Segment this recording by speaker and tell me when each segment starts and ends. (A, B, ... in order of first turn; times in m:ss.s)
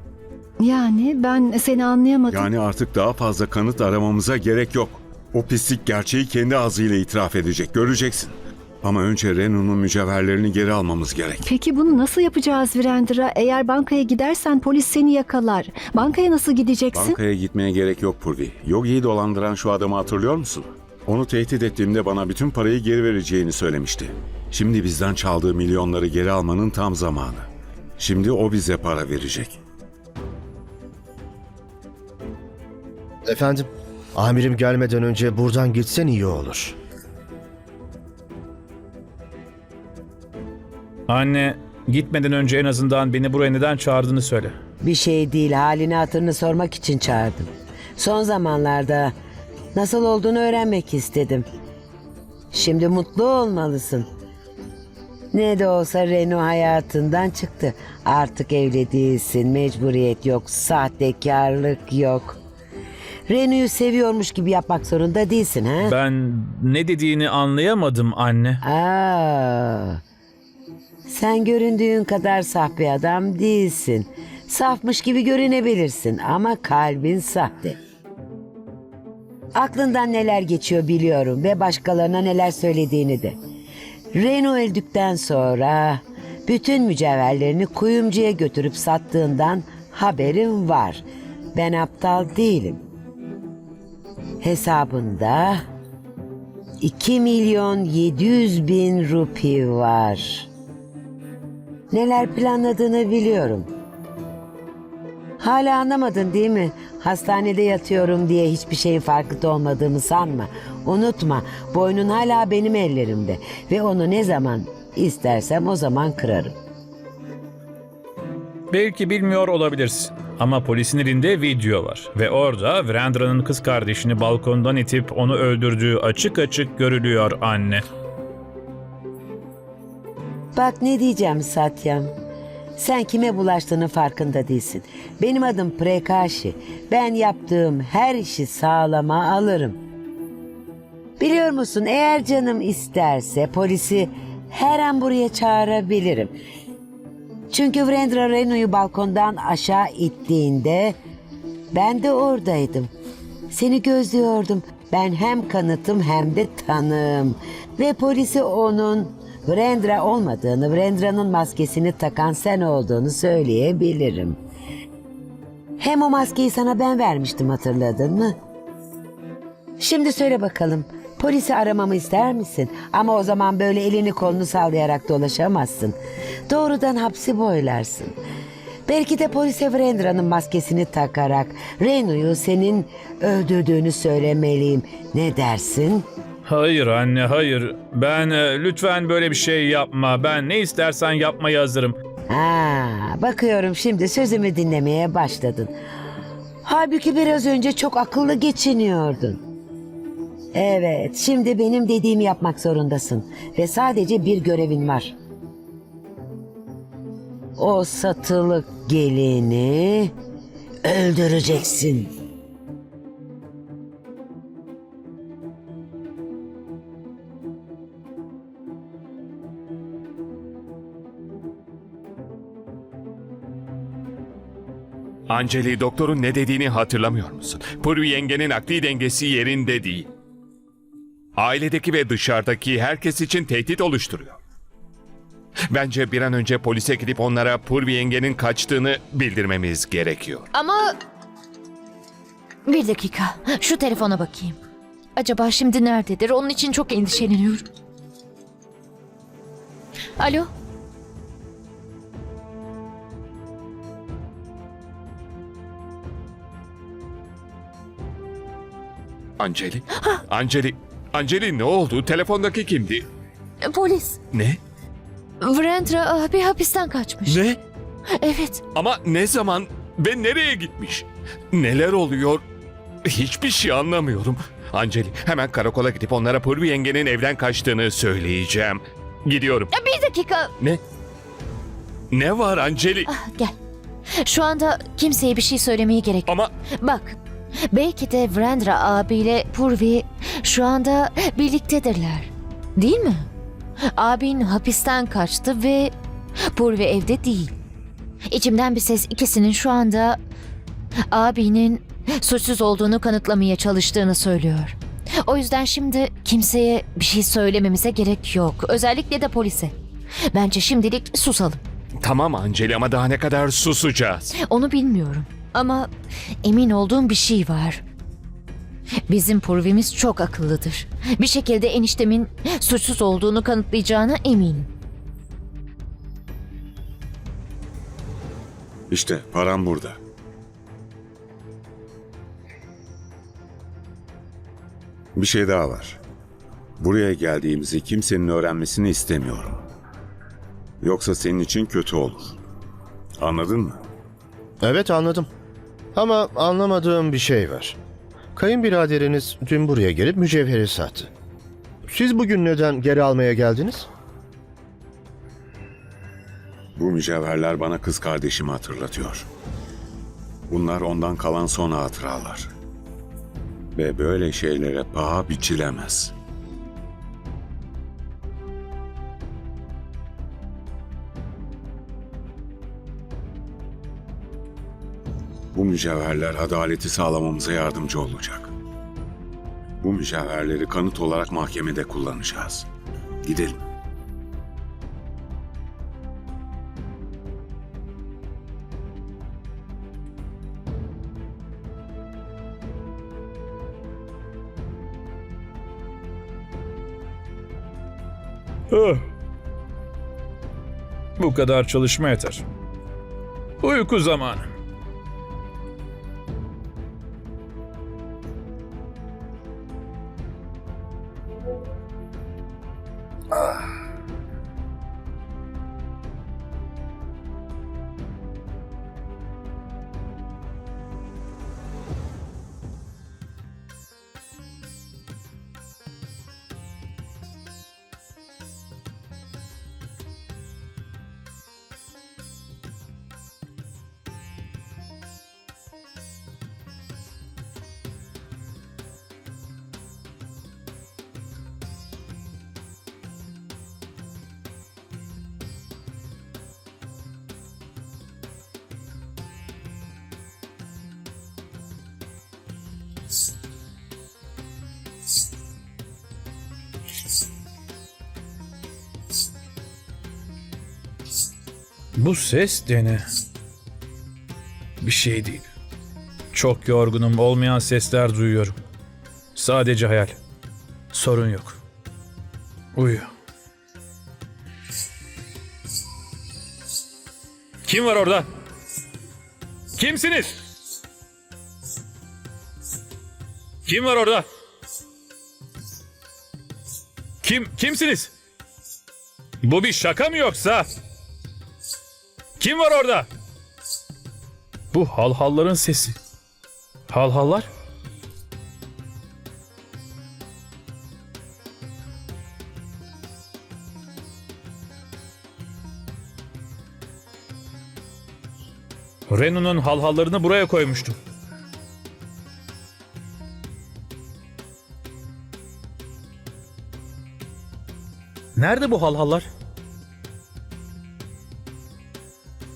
0:00.6-0:02.5 A
0:02.3-0:11.4 B
0:11.4-0:17.2 A
0:16.9-0:27.4 B
0:28.0-0:29.6 B
0:33.2-0:36.8 C
0:41.1-0:44.5 D
0:44.8-0:49.1 E
0:49.7-0:51.4 E
0:52.5-0:54.0 E
0:55.3-1:02.4 E
1:03.3-1:06.0 E
1:05.8-1:08.6 D
1:08.6-1:10.0 E
1:11.1-1:17.8 E
1:19.5-1:23.4 E
1:24.1-1:31.0 E
1:31.5-1:32.8 E
1:34.4-1:35.6 E
1:36.8-1:40.5 E
1:41.9-1:43.7 E
1:45.4-1:56.5 E
1:58.7-2:07.8 D
2:10.6-2:12.1 E
2:12.8-2:19.8 E
2:21.2-2:26.3 E
2:27.5-2:30.9 E
2:31.7-2:32.9 E
2:33.5-2:44.4 E
2:45.8-2:48.3 E
2:49.8-2:55.9 E
2:56.5-2:58.1 E
2:58.9-3:06.0 E
3:06.5-3:12.0 D
3:12.3-3:15.7 E
3:16.6-3:19.4 E
3:20.5-3:25.1 E
3:27.6-3:30.1 E
3:30.8-3:32.1 E
3:45.3-3:50.1 F
3:51.4-3:54.4 F
3:55.7-4:00.5 F
4:00.5-4:00.8 G
4:02.7-4:04.6 G
4:05.2-4:07.6 G
4:10.2-4:10.5 G
4:19.4-4:23.0 F
4:23.6-4:24.2 G
4:24.3-4:24.6 F
4:25.4-4:27.4 G
4:27.3-4:27.6 F
4:28.2-4:28.6 G
4:28.7-4:32.4 F
4:33.0-4:39.7 F
4:39.7-4:40.5 G
4:42.1-4:43.1 F
4:43.0-4:43.5 G
4:44.2-4:47.2 G
4:46.3-4:46.5 F
4:47.7-4:53.3 G
4:53.9-4:55.9 G
4:56.5-4:57.5 G
4:58.3-5:00.2 G
5:01.1-5:09.7 G
5:10.3-5:11.6 G
5:12.0-5:14.3 F
5:14.4-5:15.9 G
5:16.4-5:17.8 G
5:19.1-5:24.7 G
5:28.9-5:30.0 B
5:35.1-5:36.0 B
5:36.8-5:39.6 B
5:40.8-5:42.3 B
5:43.2-5:43.8 B
5:44.6-5:45.3 C
5:45.9-5:47.8 C
5:48.4-5:51.1 C
5:51.9-5:53.9 C
5:56.8-5:59.3 B
6:00.5-6:02.5 B
6:03.8-6:06.1 B
6:15.5-6:18.5 B
6:19.8-6:22.6 B
6:23.2-6:23.6 B
6:38.7-6:39.0 D
6:41.2-6:42.4 D
6:43.6-6:44.5 D
7:42.0-7:43.0 D
7:44.8-7:45.5 D
7:46.3-7:48.5 D
7:49.4-7:50.2 D
7:50.9-7:51.6 D
7:52.7-7:53.1 D
7:57.6-7:58.2 D
7:59.8-8:00.3 D
8:03.6-8:04.2 D
8:07.2-8:08.1 D
8:09.4-8:10.6 D
8:12.4-8:13.1 D
8:14.7-8:15.9 D
8:16.9-8:17.4 D
8:29.1-8:30.9 D
8:38.4-8:39.3 D